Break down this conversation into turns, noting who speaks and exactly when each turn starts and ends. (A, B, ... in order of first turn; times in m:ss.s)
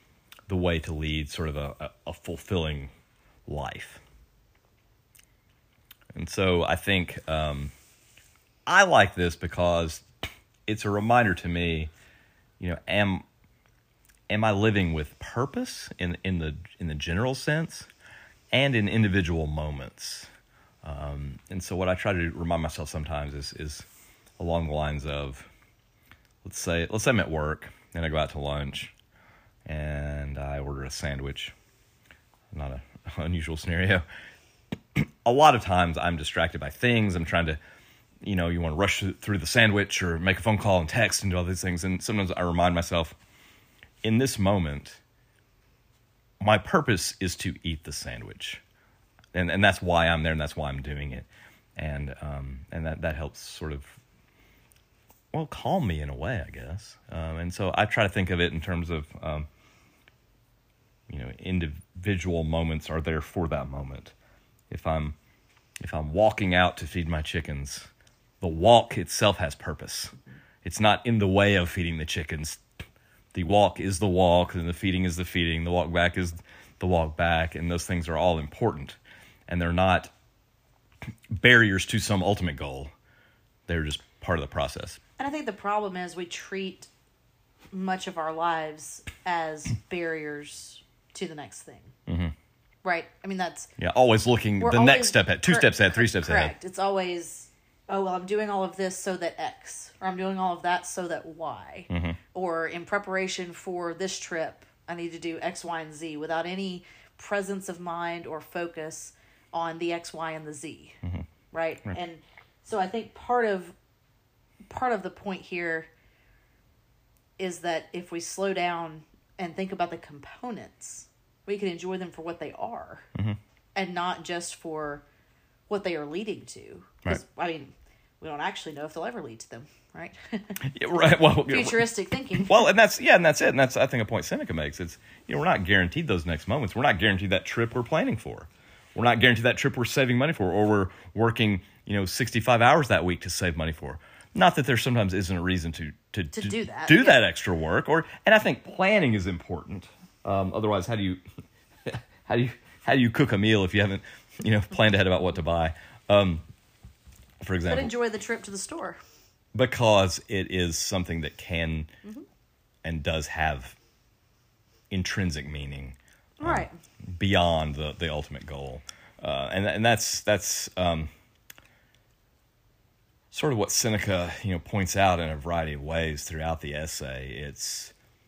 0:00.5-0:02.9 A
0:03.4-0:04.0 A
0:06.1-0:07.7 A
0:08.7-0:10.0 A
0:10.7-0:11.9 A
0:12.6-0:13.2 A
0:14.3-0:17.9 A
0:18.5-0:20.3 A
0:20.8-0:23.9 A
0:24.4-0:25.5 A
0:26.4-0:28.9 A
0:29.6-0:31.5 A
0:32.5-0:34.0 A
0:34.9-0:37.6 A
0:38.2-0:43.2 A
0:44.0-0:45.0 A
0:46.4-0:48.6 A
0:49.3-0:54.0 A
0:55.3-0:59.5 A
1:01.1-1:04.1 A
1:04.7-1:05.1 A
1:05.8-1:07.9 A
1:08.4-1:10.1 A
1:10.6-1:12.6 A
1:13.3-1:20.1 A
1:21.3-1:22.9 A
1:23.7-1:25.0 A
1:25.2-1:26.9 B
1:27.7-1:31.9 B
1:32.1-1:32.3 A
1:32.8-1:33.7 B
1:33.8-1:36.5 A
1:34.6-1:51.0 B
1:41.9-1:42.2 A
1:51.5-1:53.7 B
1:54.7-1:55.9 B
1:57.4-2:03.0 B
2:03.8-2:05.0 B
2:05.7-2:10.6 B
2:10.6-2:31.2 A
2:11.4-2:12.6 B
2:26.3-2:27.2 B
2:31.8-2:36.4 A
2:37.4-2:37.9 A
2:37.7-2:39.0 B
2:39.5-2:41.9 A
2:42.8-2:43.8 A
2:44.9-2:46.6 A
2:46.4-2:46.8 B
2:47.2-2:51.1 A
2:53.3-2:57.9 A